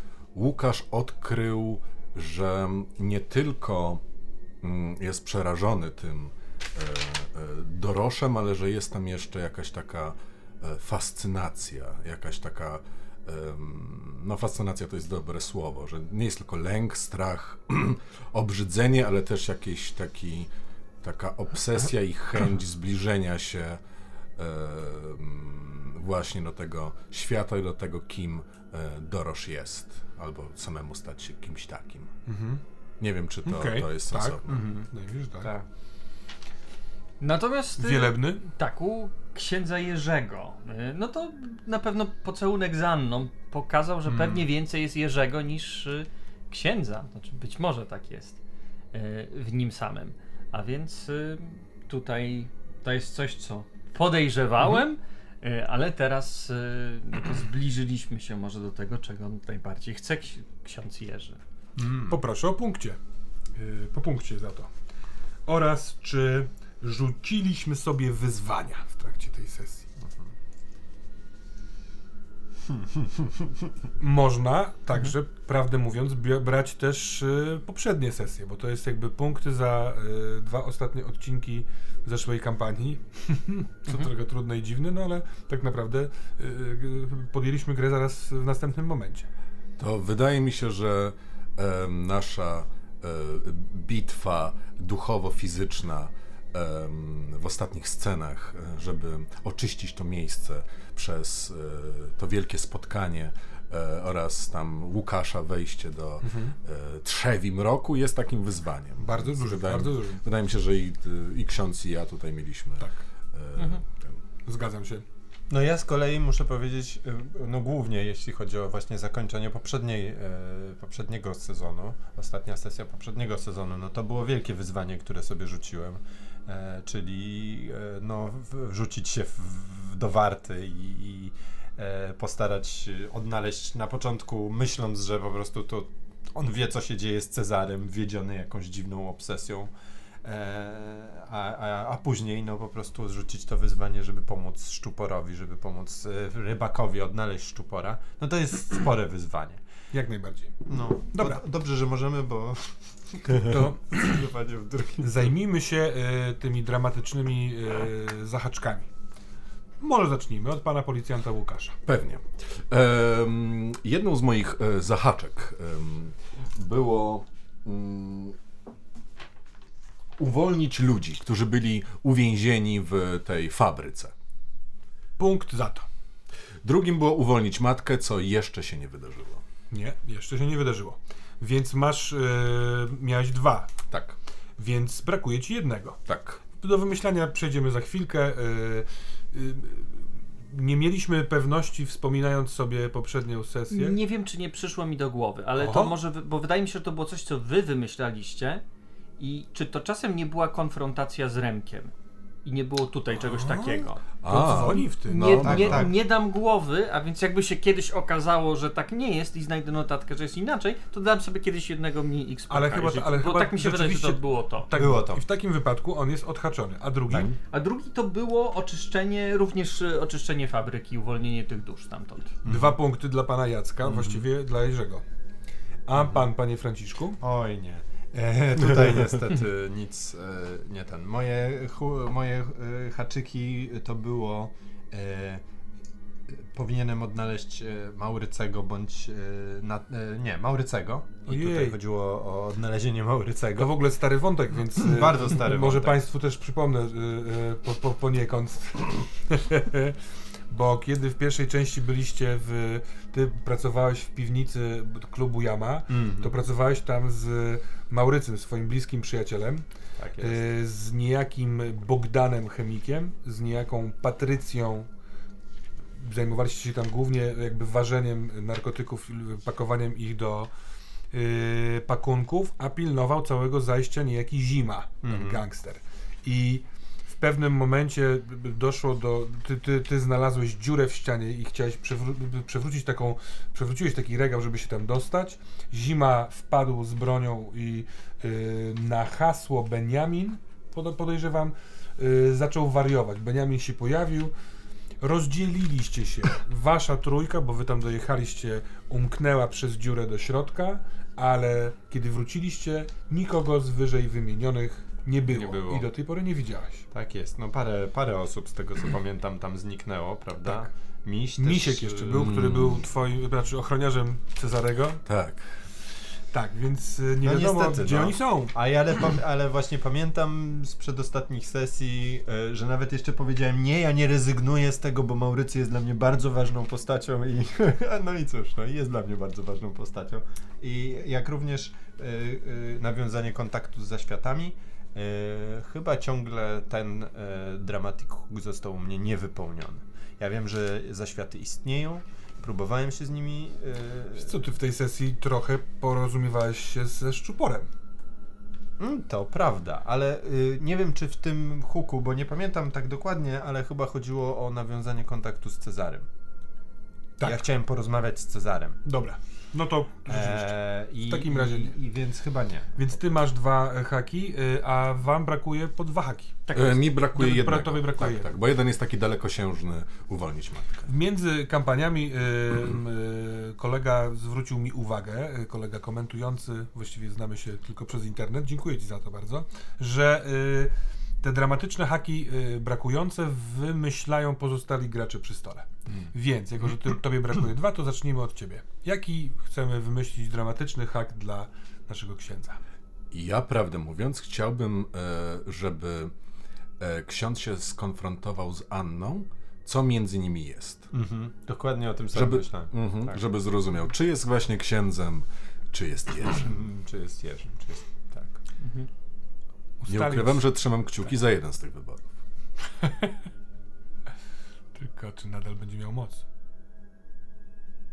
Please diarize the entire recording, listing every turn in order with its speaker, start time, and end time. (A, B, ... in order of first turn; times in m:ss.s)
0:00.3-0:04.0 A
0:04.6-0:20.5 A
0:21.0-0:23.8 A
0:24.4-0:32.1 A
0:32.2-0:32.6 B
0:33.0-0:34.6 A
0:33.4-0:35.5 B
0:34.4-0:34.9 C
0:35.4-0:35.7 C
0:37.2-0:48.4 D
0:37.8-0:38.4 B
0:44.0-0:44.4 B
0:48.9-1:01.4 D
1:01.8-1:02.2 C
1:02.1-1:03.0 B
1:03.6-1:04.7 B
1:05.4-1:09.9 B
1:12.7-1:13.5 C
1:14.0-1:29.3 B
1:29.8-1:54.2 A
1:46.2-1:46.6 B
1:49.0-1:50.2 B
1:53.6-1:53.8 D
1:54.4-1:55.0 B
1:55.5-2:19.7 C
2:20.2-2:29.6 C
2:29.9-2:31.4 B
2:30.6-2:35.3 C
2:33.2-2:34.2 B
2:35.0-2:38.9 B
2:39.8-2:41.8 B
2:41.8-2:48.4 A
2:50.2-2:54.1 A
2:55.2-2:55.8 B
2:56.6-2:59.4 A
2:59.7-3:03.7 B
3:03.9-3:04.2 A
3:04.6-3:06.0 B
3:06.0-3:06.4 A
3:06.5-3:14.0 B
3:13.7-3:18.6 D
3:15.6-3:16.0 B
3:19.2-3:21.9 D
3:22.4-3:24.0 D
3:23.2-3:25.4 B
3:24.2-3:25.9 A
3:25.1-3:34.7 D
3:25.4-3:26.0 C
3:32.5-3:37.3 B
3:34.7-3:35.2 C
3:37.4-3:42.4 D
3:42.4-3:42.8 C
3:42.4-3:45.0 B
3:43.8-3:44.2 C
3:45.9-3:47.2 B
3:47.2-3:55.4 C
3:56.3-4:03.9 C
4:01.2-4:01.8 B
4:03.5-4:19.6 B
4:04.7-4:06.0 C
4:15.9-4:16.3 C
4:20.0-4:20.4 C
4:20.2-4:24.9 B
4:26.0-4:30.5 B
4:31.1-4:54.3 B
4:35.0-4:35.4 C
4:55.0-5:06.8 B
5:05.2-5:05.9 C
5:06.9-5:12.3 C
5:11.4-5:15.0 B
5:12.1-5:12.8 A
5:15.0-5:15.6 A
5:16.3-5:18.5 B
5:17.2-5:44.3 C
5:44.2-5:47.7 B
5:48.8-5:56.1 C
5:57.2-5:57.5 B
5:57.2-5:58.8 C
5:58.8-6:01.8 B
6:00.1-6:02.9 C
6:02.7-6:06.4 B
6:06.5-6:06.8 D
6:06.5-6:10.9 A
6:07.1-6:08.3 B
6:10.8-6:32.6 B
6:33.1-6:36.1 A
6:36.8-6:40.9 A
6:40.9-6:43.2 C
6:42.1-6:46.5 A
6:46.3-6:48.4 C
6:48.6-6:48.9 D
6:49.8-6:50.5 B
6:49.9-6:52.1 A
6:52.8-6:53.1 B
6:54.7-6:56.2 B